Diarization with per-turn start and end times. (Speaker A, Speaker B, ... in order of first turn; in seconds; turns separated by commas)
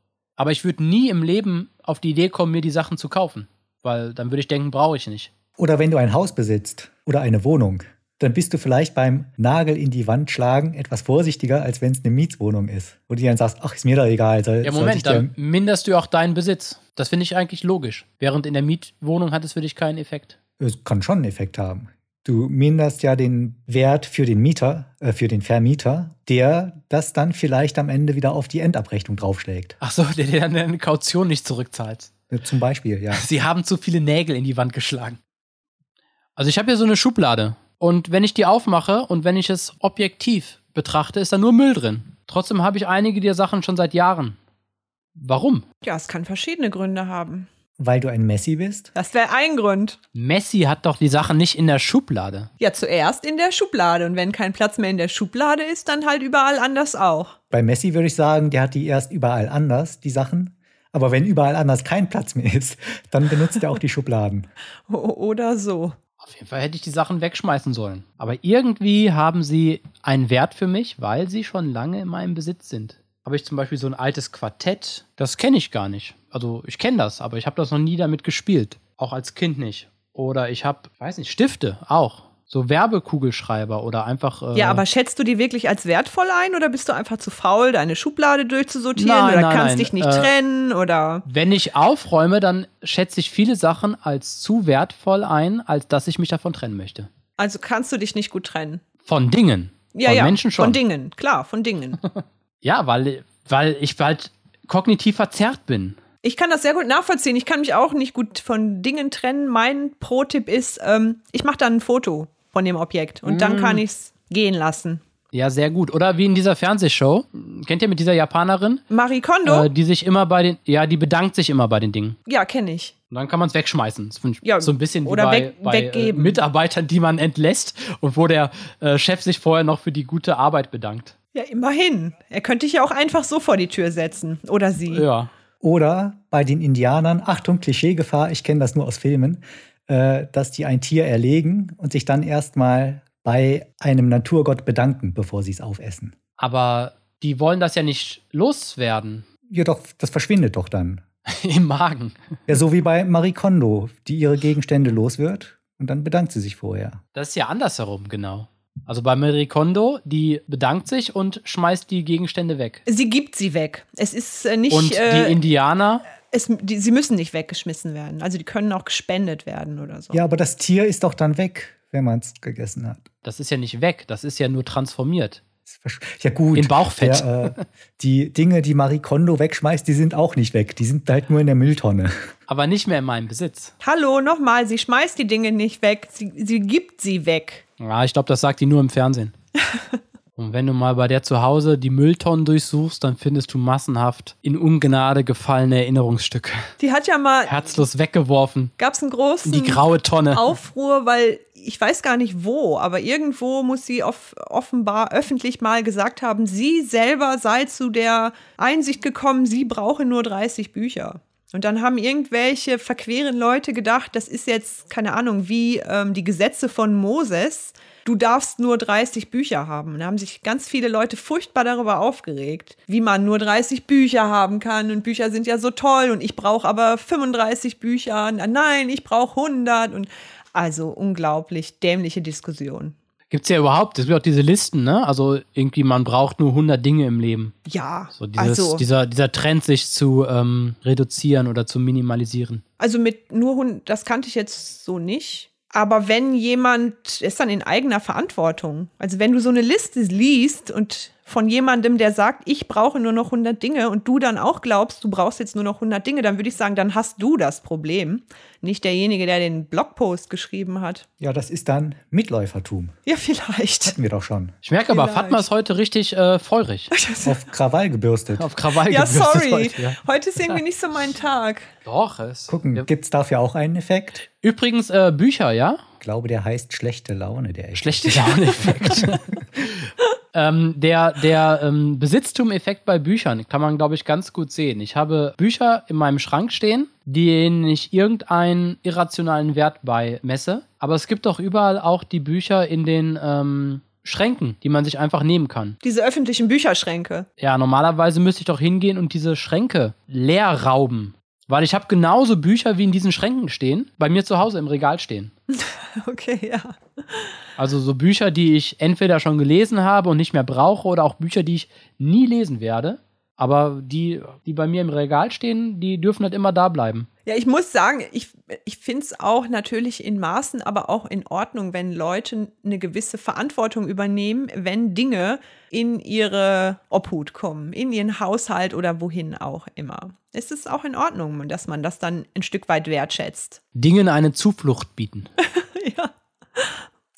Speaker A: 0.4-5.3, Speaker B: 5.6-15.3, Speaker A: 14.6-20.4, Speaker B: 20.6-29.8, Speaker A: 29.8-32.1, Speaker B: 32.3-33.2, Speaker A: 33.1-35.2, Speaker A: 36.4-44.4, Speaker A: 45.2-45.6, Speaker C: 45.8-47.5, Speaker B: 47.8-48.9, Speaker C: 48.9-50.0, Speaker A: 50.1-52.5, Speaker C: 52.6-57.4, Speaker B: 57.5-64.5, Speaker C: 64.9-66.0, Speaker A: 66.2-84.8, Speaker C: 84.5-91.2, Speaker A: 89.0-90.3, Speaker A: 91.2-97.1, Speaker C: 97.4-98.8, Speaker A: 99.0-100.8, Speaker C: 99.9-102.0, Speaker A: 102.0-106.0, Speaker C: 106.2-115.0, Speaker A: 113.2-113.8, Speaker A: 115.3-118.8, Speaker C: 118.9-119.7, Speaker A: 119.4-122.2, Speaker C: 122.3-122.9, Speaker A: 123.1-131.1, Speaker C: 124.4-126.4, Speaker C: 131.3-135.1, Speaker A: 134.9-135.3, Speaker B: 135.6-146.1, Speaker A: 146.4-149.2, Speaker B: 149.5-151.0, Speaker A: 151.3-152.2, Speaker B: 152.5-157.0, Speaker A: 157.1-162.8, Speaker C: 162.8-165.4, Speaker A: 164.7-166.1, Speaker C: 166.3-170.2, Speaker B: 170.1-173.0, Speaker A: 173.2-175.4, Speaker B: 175.7-182.3, Speaker A: 176.5-177.7, Speaker A: 182.5-183.7, Speaker C: 183.8-187.6, Speaker A: 187.8-189.3, Speaker C: 189.7-190.0, Speaker A: 190.4-196.7, Speaker C: 196.8-197.8, Speaker A: 197.5-198.7, Speaker C: 198.8-232.9, Speaker A: 199.4-200.5, Speaker A: 233.3-237.5, Speaker C: 237.7-238.8, Speaker A: 238.1-242.6, Speaker C: 242.8-261.0, Speaker B: 261.2-262.9, Speaker C: 263.1-263.9, Speaker B: 263.8-264.5, Speaker A: 264.6-266.9, Speaker C: 264.9-265.4, Speaker C: 266.9-267.4, Speaker B: 267.2-268.5, Speaker A: 268.4-270.6, Speaker C: 268.7-271.7, Speaker A: 271.8-272.9, Speaker B: 272.5-274.2, Speaker A: 274.4-275.8, Speaker B: 276.0-279.1, Speaker A: 277.7-295.8, Speaker C: 295.8-297.3, Speaker A: 297.4-305.3, Speaker C: 305.5-307.3, Speaker A: 307.6-317.1, Speaker C: 317.2-333.6, Speaker A: 333.7-335.3, Speaker C: 335.4-336.8